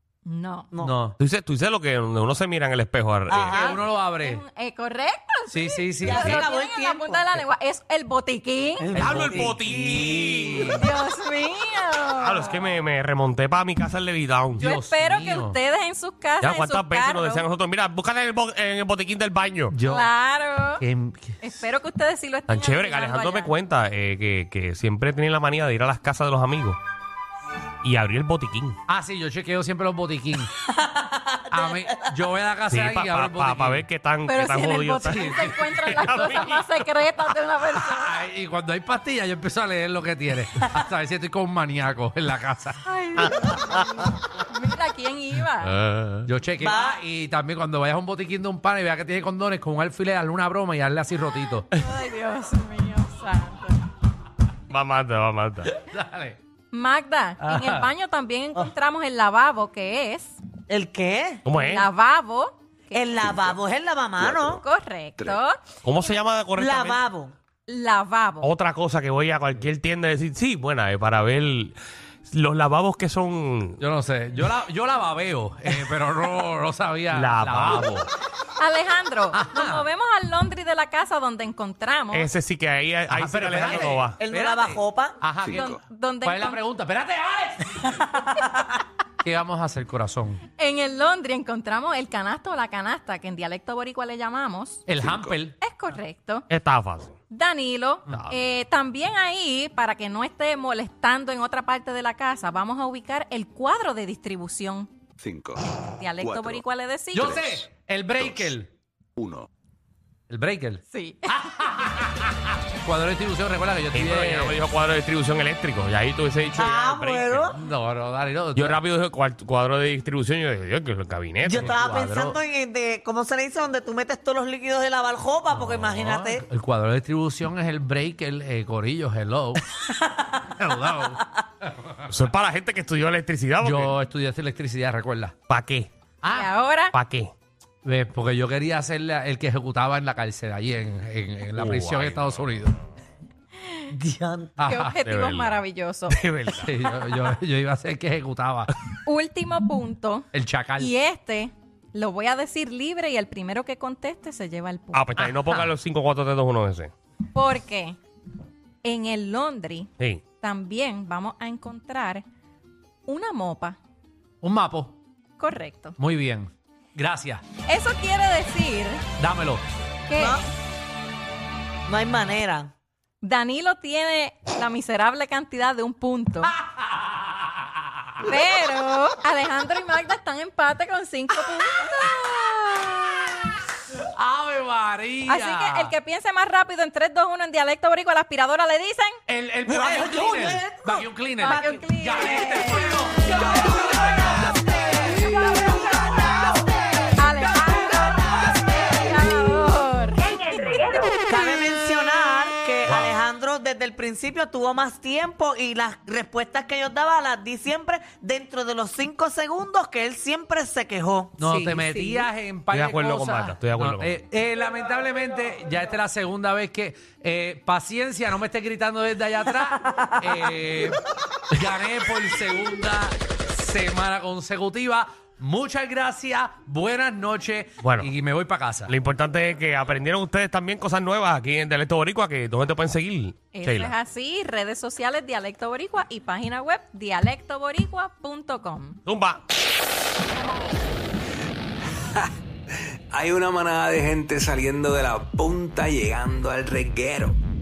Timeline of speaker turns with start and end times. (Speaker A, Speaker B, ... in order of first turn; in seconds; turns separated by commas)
Speaker A: 0.3-0.7, Speaker B: 0.7-1.0, Speaker C: 0.8-1.1, Speaker D: 1.2-3.8, Speaker B: 3.3-3.8, Speaker C: 3.5-4.4, Speaker A: 4.2-8.9, Speaker C: 5.5-6.3, Speaker B: 6.0-7.4, Speaker B: 8.8-10.8, Speaker C: 8.9-10.9, Speaker D: 8.9-10.8, Speaker A: 10.7-12.7, Speaker D: 12.2-14.7, Speaker C: 14.6-15.6, Speaker A: 14.6-17.5, Speaker D: 16.4-19.8, Speaker C: 19.7-20.1, Speaker A: 19.9-20.8, Speaker C: 20.8-21.4, Speaker A: 21.4-23.5, Speaker D: 22.5-26.8, Speaker D: 27.8-28.8, Speaker C: 28.9-30.5, Speaker B: 30.6-32.1, Speaker C: 31.5-33.9, Speaker D: 32.7-36.7, Speaker A: 34.3-38.2, Speaker C: 35.0-36.4, Speaker C: 37.7-42.8, Speaker A: 42.8-45.7, Speaker D: 43.2-43.8, Speaker D: 45.6-46.3, Speaker C: 46.3-51.7, Speaker B: 46.6-47.0, Speaker A: 51.7-53.8, Speaker D: 54.7-55.8, Speaker C: 55.7-56.4, Speaker A: 56.7-60.4, Speaker C: 57.4-57.9, Speaker B: 60.7-61.4, Speaker D: 61.4-61.9, Speaker A: 61.5-63.1, Speaker B: 62.9-64.6, Speaker E: 63.2-63.6, Speaker E: 64.2-64.6, Speaker A: 64.6-65.6, Speaker D: 65.8-67.0, Speaker B: 66.6-67.3, Speaker A: 67.7-68.5, Speaker D: 68.4-73.8, Speaker C: 73.8-78.0, Speaker D: 77.1-78.1, Speaker A: 78.6-82.3, Speaker C: 79.3-79.9, Speaker D: 82.1-84.2, Speaker C: 83.1-85.6, Speaker B: 83.7-85.7, Speaker E: 85.4-85.8, Speaker A: 85.5-86.6, Speaker C: 86.2-88.0, Speaker B: 88.3-88.7, Speaker C: 89.2-90.4, Speaker A: 90.6-94.8, Speaker C: 94.9-95.6, Speaker E: 94.9-95.4, Speaker A: 95.6-96.5, Speaker D: 96.5-97.2, Speaker A: 97.3-104.9, Speaker D: 98.1-98.3, Speaker E: 105.2-106.6, Speaker A: 105.9-107.3, Speaker E: 107.1-108.5, Speaker C: 107.1-108.7, Speaker E: 109.2-109.5, Speaker C: 110.3-114.6, Speaker A: 110.9-111.7, Speaker D: 113.9-117.5, Speaker B: 116.6-117.6, Speaker C: 117.5-118.8, Speaker D: 118.6-121.7, Speaker B: 121.5-126.5, Speaker C: 121.5-122.4, Speaker C: 125.6-129.6, Speaker B: 129.9-130.3, Speaker C: 130.4-131.9, Speaker D: 132.1-133.9, Speaker C: 133.6-135.3, Speaker D: 135.5-135.9, Speaker C: 136.2-136.5, Speaker A: 136.3-136.9, Speaker D: 136.9-137.3, Speaker C: 137.8-142.8, Speaker D: 141.6-142.4, Speaker B: 143.9-144.7, Speaker C: 144.6-145.0, Speaker A: 144.7-146.2, Speaker D: 145.0-146.8, Speaker C: 146.6-148.7, Speaker A: 149.1-155.1, Speaker C: 150.3-150.9, Speaker D: 154.9-156.9, Speaker C: 155.2-155.7, Speaker A: 157.3-158.0, Speaker A: 158.8-162.2, Speaker A: 163.1-163.8, Speaker C: 164.4-165.0, Speaker A: 165.4-166.0, Speaker C: 166.0-167.4, Speaker A: 167.7-169.0, Speaker C: 169.2-169.6, Speaker A: 170.1-170.5, Speaker B: 170.2-170.4, Speaker B: 171.9-172.7, Speaker A: 173.2-176.5, Speaker C: 176.4-178.3, Speaker A: 178.2-183.4, Speaker C: 183.9-185.9, Speaker A: 185.3-189.2, Speaker C: 189.3-195.4, Speaker B: 189.6-199.0, Speaker A: 191.4-192.9, Speaker A: 195.2-196.1, Speaker A: 197.2-201.2, Speaker B: 200.2-211.5, Speaker C: 202.9-203.1, Speaker C: 211.4-221.0, Speaker A: 211.5-212.2, Speaker D: 212.7-214.1, Speaker C: 221.5-228.9, Speaker D: 227.8-228.1, Speaker D: 228.9-233.9, Speaker A: 233.5-239.0, Speaker D: 239.1-239.4, Speaker F: 243.1-247.4